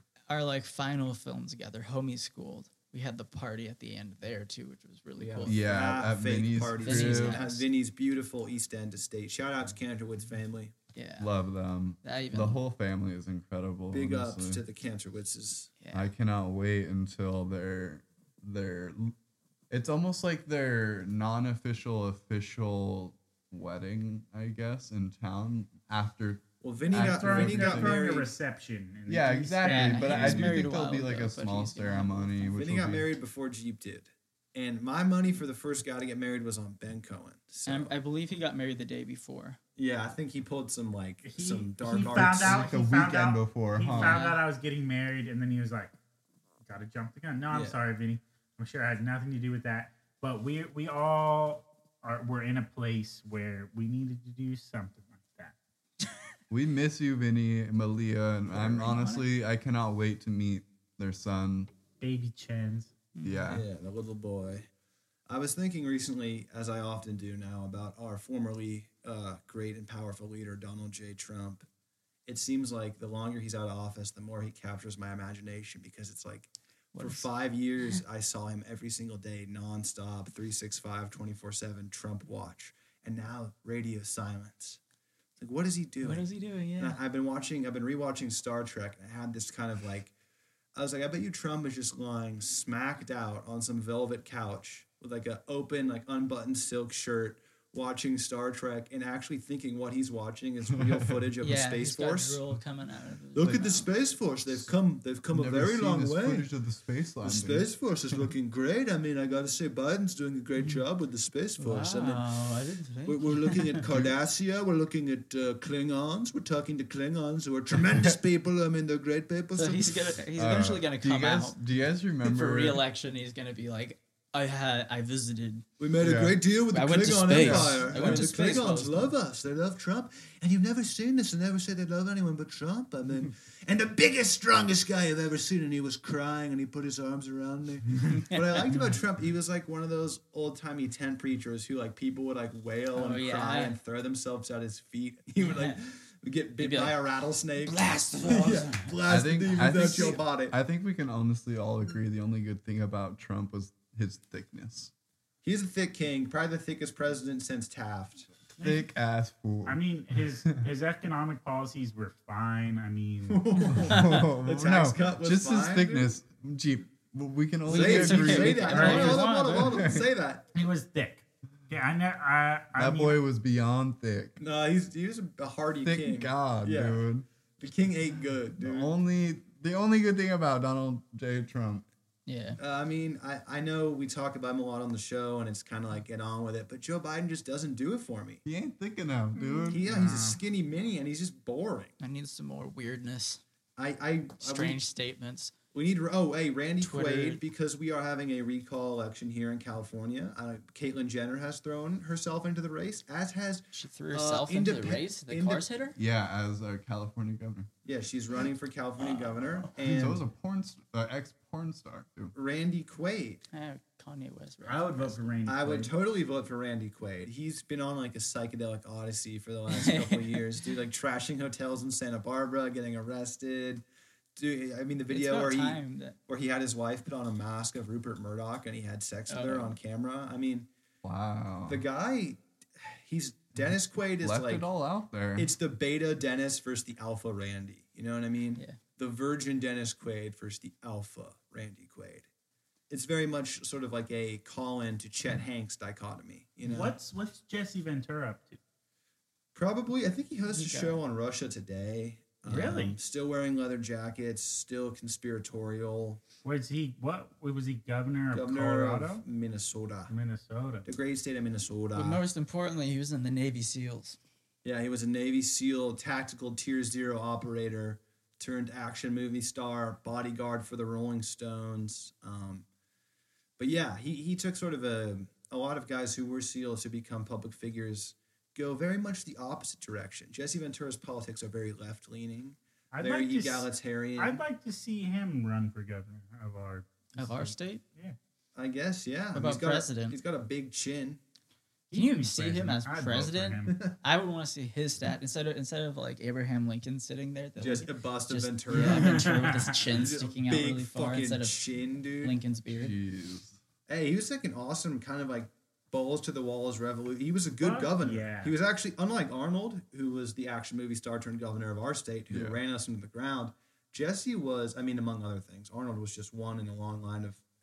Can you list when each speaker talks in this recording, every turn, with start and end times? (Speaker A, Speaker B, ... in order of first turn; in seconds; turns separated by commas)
Speaker A: 0.3-5.6, Speaker B: 5.2-10.7, Speaker C: 5.4-7.4, Speaker A: 6.8-7.7, Speaker A: 10.9-11.3, Speaker C: 11.2-14.6, Speaker A: 12.0-12.6, Speaker B: 13.9-15.7, Speaker A: 15.8-16.1, Speaker C: 15.9-19.1, Speaker C: 19.7-28.0, Speaker B: 26.6-28.3, Speaker D: 26.9-30.6, Speaker C: 29.1-33.1, Speaker A: 29.6-32.6, Speaker B: 32.5-37.9, Speaker A: 37.6-39.6, Speaker B: 39.8-42.7, Speaker D: 41.2-45.9, Speaker C: 42.0-44.2, Speaker A: 43.9-44.4, Speaker D: 46.6-55.5, Speaker C: 56.5-61.7, Speaker A: 58.5-59.2, Speaker D: 62.0-62.9, Speaker A: 63.1-63.6, Speaker C: 63.2-63.6, Speaker B: 63.5-64.7, Speaker B: 65.3-71.6, Speaker B: 72.2-84.8, Speaker A: 76.9-77.3, Speaker B: 85.4-90.1, Speaker A: 86.0-87.0, Speaker B: 90.7-102.4, Speaker A: 101.4-103.9, Speaker B: 103.3-106.5, Speaker C: 105.3-107.7, Speaker B: 107.2-112.2, Speaker A: 111.6-113.9, Speaker B: 113.0-120.2, Speaker A: 119.5-121.6, Speaker C: 120.3-122.8, Speaker A: 122.2-125.6, Speaker B: 125.8-150.6, Speaker C: 126.0-126.4, Speaker A: 126.7-129.1, Speaker C: 127.3-128.3, Speaker A: 138.1-138.7, Speaker A: 142.9-143.8, Speaker A: 145.4-145.8, Speaker A: 146.6-147.0, Speaker A: 147.6-148.9, Speaker C: 149.1-154.9, Speaker B: 155.4-158.3, Speaker D: 158.6-158.8, Speaker C: 158.6-159.8, Speaker D: 159.6-163.4, Speaker B: 163.3-166.1, Speaker C: 163.7-170.1, Speaker A: 163.7-164.2, Speaker A: 167.7-169.9, Speaker B: 167.7-170.4, Speaker D: 168.6-169.2, Speaker D: 170.5-173.2, Speaker C: 172.7-174.4, Speaker B: 174.4-177.1, Speaker C: 175.8-177.2, Speaker B: 177.6-178.9, Speaker C: 178.6-181.8, Speaker A: 182.2-182.6, Speaker B: 182.6-188.4, Speaker C: 188.4-189.8, Speaker D: 189.4-190.4, Speaker B: 189.7-191.9, Speaker A: 192.0-193.4, Speaker B: 193.8-194.8, Speaker A: 194.4-195.5, Speaker B: 195.7-205.7, Speaker A: 196.8-197.4, Speaker A: 203.7-206.0, Speaker C: 206.0-207.7, Speaker B: 207.8-210.2, Speaker A: 209.0-209.8, Speaker C: 209.9-212.3, Speaker B: 212.3-213.4, Speaker A: 213.5-215.2, Speaker D: 214.6-215.9, Speaker B: 215.4-223.8, Speaker A: 219.7-220.4, Speaker B: 224.3-230.7, Speaker A: 225.1-226.2, Speaker A: 229.3-229.8, Speaker C: 231.0-231.8, Speaker B: 231.7-234.7, Speaker C: 234.2-235.5, Speaker B: 235.3-242.3, Speaker A: 238.6-238.8, Speaker B: 242.9-246.9, Speaker D: 246.6-248.6, Speaker B: 249.5-256.2, Speaker A: 250.5-251.0, Speaker D: 252.5-252.9, Speaker A: 252.5-252.8, Speaker D: 256.4-259.2, Speaker B: 258.3-260.1, Speaker D: 260.1-260.9, Speaker B: 260.9-262.2, Speaker A: 261.9-264.2, Speaker B: 264.6-272.6, Speaker B: 273.6-284.4, Speaker D: 282.9-288.1, Speaker A: 287.1-287.8, Speaker B: 288.6-291.2, Speaker A: 289.3-290.2, Speaker D: 291.9-293.9, Speaker A: 291.9-301.6, Speaker B: 293.7-294.0, Speaker B: 297.6-302.4, Speaker D: 298.7-299.8, Speaker A: 302.2-302.9, Speaker C: 302.7-303.6, Speaker B: 303.9-317.4, Speaker D: 307.6-308.5, Speaker C: 312.3-312.6